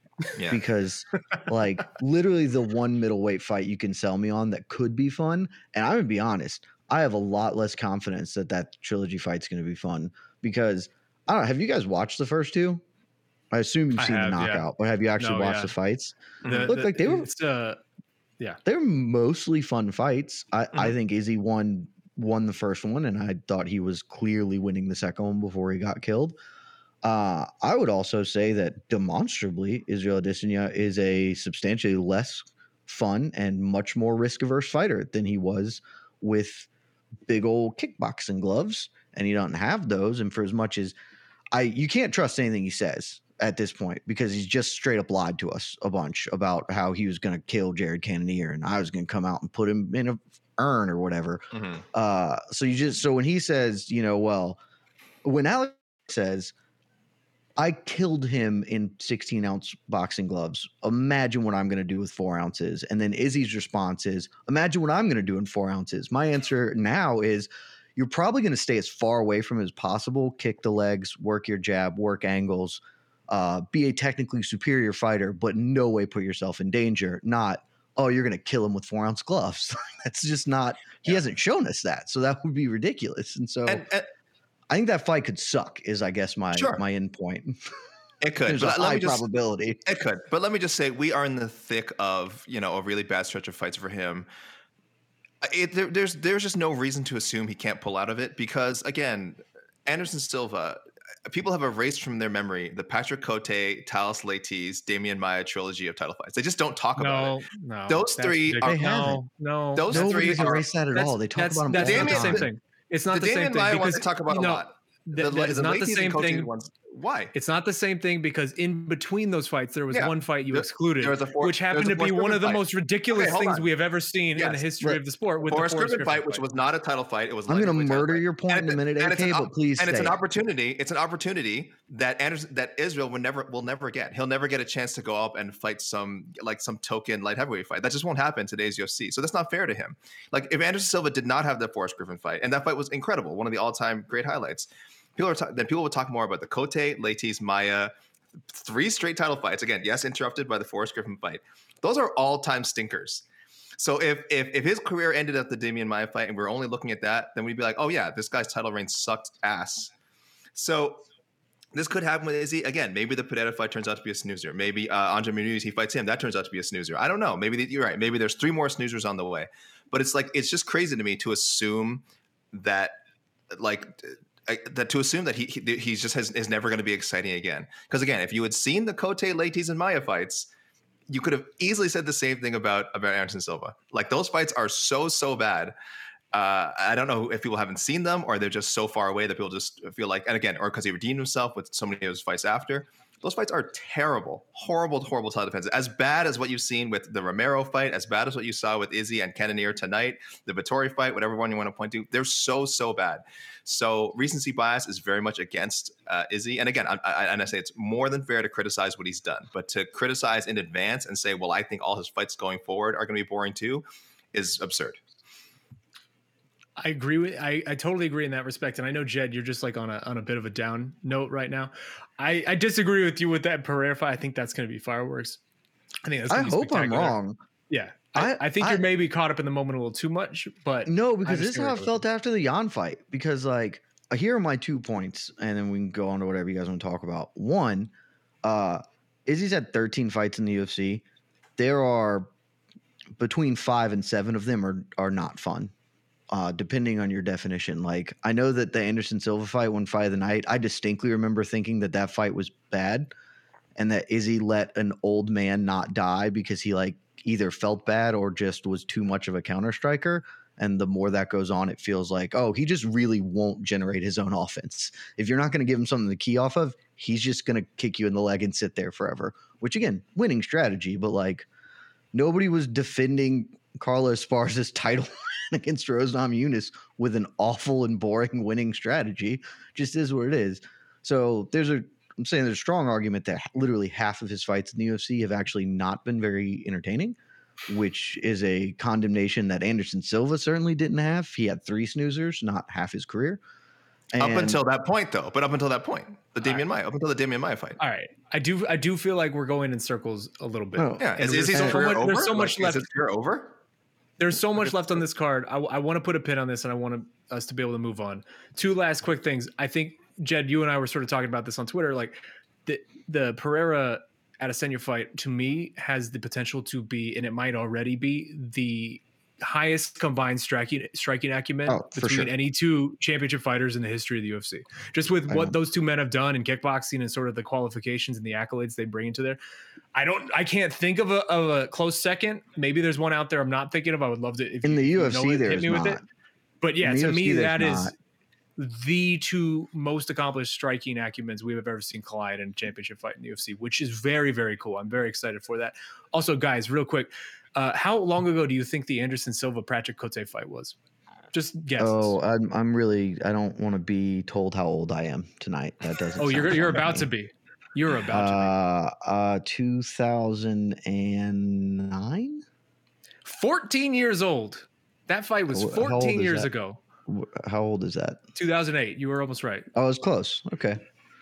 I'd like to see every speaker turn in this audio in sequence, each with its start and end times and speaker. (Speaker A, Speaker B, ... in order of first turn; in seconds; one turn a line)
Speaker A: 0.5-12.8
Speaker A: 13.5-17.3
Speaker B: 14.0-14.7
Speaker B: 15.2-15.7
Speaker B: 16.4-17.8
Speaker A: 18.6-26.4
Speaker A: 27.0-36.7
Speaker A: 37.3-41.0
Speaker A: 41.5-54.6
Speaker C: 51.5-51.8
Speaker A: 55.2-56.5
Speaker A: 57.6-83.9
Speaker C: 83.7-84.1
Speaker A: 84.7-87.6
Speaker C: 86.5-86.8
Speaker C: 88.2-89.2
Speaker A: 88.4-89.8
Speaker C: 89.8-94.3
Speaker C: 95.4-108.9
Speaker B: 107.0-116.5
Speaker A: 108.6-109.2
Speaker C: 109.8-110.6
Speaker A: 109.9-112.5
Speaker C: 111.7-112.5
Speaker C: 113.1-117.3
Speaker B: 117.3-126.4
Speaker C: 119.9-123.7
Speaker C: 124.4-124.7
Speaker C: 125.5-147.9
Speaker A: 127.5-130.2
Speaker C: 148.5-153.2
Speaker C: 153.8-159.9
Speaker C: 160.6-161.1
Speaker C: 161.7-173.0
Speaker C: 173.5-180.5
Speaker C: 181.1-185.7
Speaker C: 186.3-215.0
Speaker B: 216.8-225.4
Speaker B: 226.0-227.2
Speaker A: 226.3-227.4
Speaker B: 227.7-232.0
Speaker A: 228.2-228.8
Speaker A: 230.9-237.9
Speaker A: 238.4-241.0
Speaker A: 241.6-242.3
Speaker A: 243.2-245.7
Speaker A: 246.3-253.1
Speaker A: 253.8-271.5
Speaker A: 272.1-287.2
Speaker A: 287.7-293.4
Speaker A: 294.1-294.6
Speaker C: 294.2-297.8
Speaker B: 297.8-302.9
Speaker A: 300.8-301.8
Speaker C: 301.0-303.6
Speaker B: 304.2-329.4
Speaker A: 321.7-322.3
Speaker A: 325.3-325.6
Speaker B: 329.9-336.0
Speaker A: 334.6-336.0
Speaker B: 336.6-337.9
Speaker A: 336.8-337.9
Speaker B: 338.6-350.8
Speaker B: 351.3-352.2
Speaker A: 351.8-357.1
Speaker B: 356.2-358.5
Speaker A: 358.1-362.4
Speaker B: 363.2-366.8
Speaker A: 365.5-366.5
Speaker A: 367.1-368.2
Speaker B: 368.4-369.7
Speaker A: 369.7-370.8